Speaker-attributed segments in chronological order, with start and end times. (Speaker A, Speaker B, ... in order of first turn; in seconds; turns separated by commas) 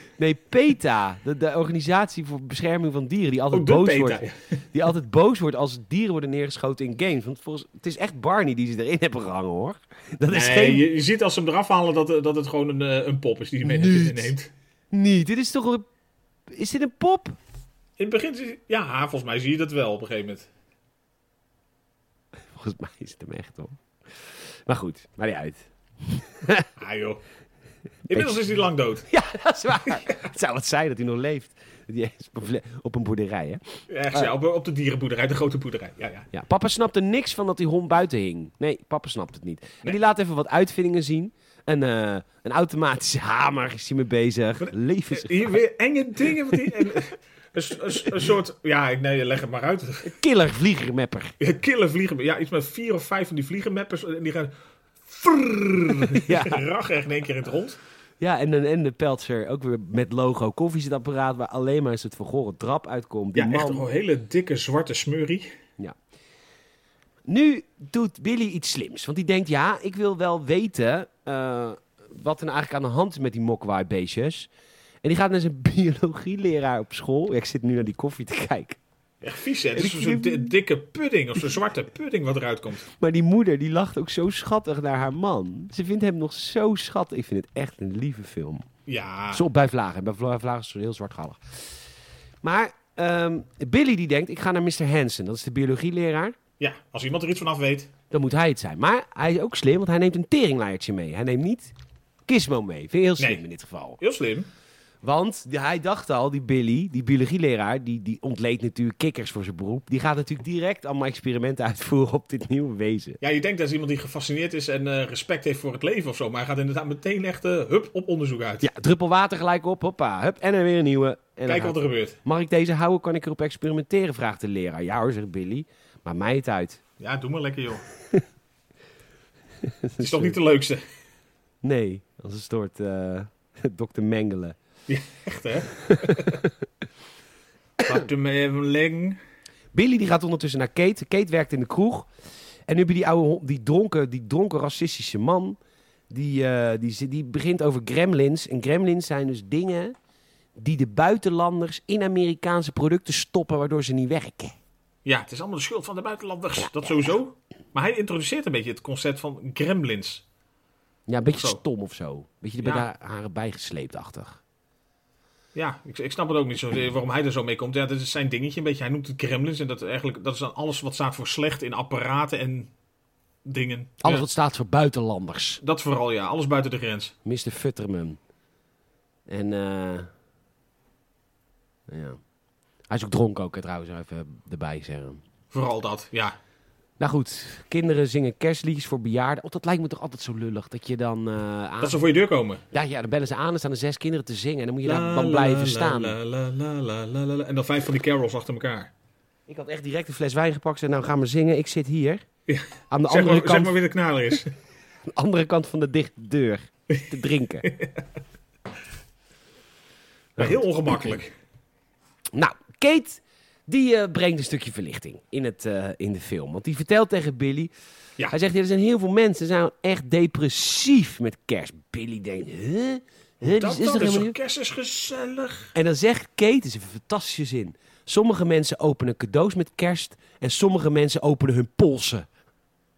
Speaker A: 0.2-10.8, Speaker B: 3.5-4.3, Speaker B: 10.3-14.5, Speaker A: 13.6-14.3, Speaker A: 14.9-15.8, Speaker A: 16.5-17.4, Speaker B: 18.0-20.5, Speaker A: 22.5-23.8, Speaker A: 24.7-26.7, Speaker B: 26.8-27.2, Speaker A: 28.1-28.4, Speaker B: 28.1-29.1, Speaker A: 29.1-33.6, Speaker B: 33.9-36.3, Speaker A: 36.3-45.6, Speaker B: 44.6-50.1, Speaker A: 50.0-51.3, Speaker B: 51.4-54.5, Speaker B: 55.0-57.8, Speaker A: 56.0-56.6, Speaker A: 58.2-63.9, Speaker B: 63.3-65.5, Speaker A: 67.3-74.5, Speaker A: 75.0-78.8, Speaker B: 79.2-82.9, Speaker A: 79.7-80.5, Speaker A: 82.9-88.6, Speaker B: 88.9-89.4, Speaker A: 89.3-91.4, Speaker A: 92.4-96.4, Speaker B: 96.6-97.9, Speaker A: 98.1-101.7, Speaker A: 102.3-104.0, Speaker B: 104.0-104.5, Speaker A: 105.0-113.2, Speaker B: 113.2-118.7, Speaker A: 118.6-126.8, Speaker B: 121.5-122.2, Speaker B: 127.0-127.8, Speaker A: 129.6-130.3, Speaker B: 130.0-130.8, Speaker A: 131.6-134.6, Speaker B: 134.9-136.4, Speaker A: 135.9-136.5, Speaker B: 137.8-139.2, Speaker A: 139.7-142.1, Speaker A: 142.7-145.6, Speaker A: 146.1-149.9, Speaker A: 150.6-154.5, Speaker B: 155.0-160.2, Speaker A: 161.1-164.4, Speaker B: 161.3-161.6, Speaker B: 165.5-172.7, Speaker B: 173.4-174.2, Speaker A: 174.0-175.6, Speaker B: 175.6-177.1, Speaker A: 177.2-178.2, Speaker A: 179.3-180.1, Speaker A: 181.9-182.2, Speaker A: 182.9-185.2, Speaker B: 185.5-186.3, Speaker A: 187.0-192.0, Speaker B: 191.8-192.6, Speaker A: 192.7-196.2, Speaker B: 194.8-198.9, Speaker A: 199.5-202.2, Speaker B: 202.5-204.5, Speaker A: 202.9-203.7, Speaker A: 205.1-207.7, Speaker B: 207.6-208.0, Speaker A: 210.4-210.6, Speaker B: 210.4-211.3, Speaker A: 212.3-217.7, Speaker A: 218.3-224.3, Speaker B: 223.4-225.7, Speaker A: 225.7-232.3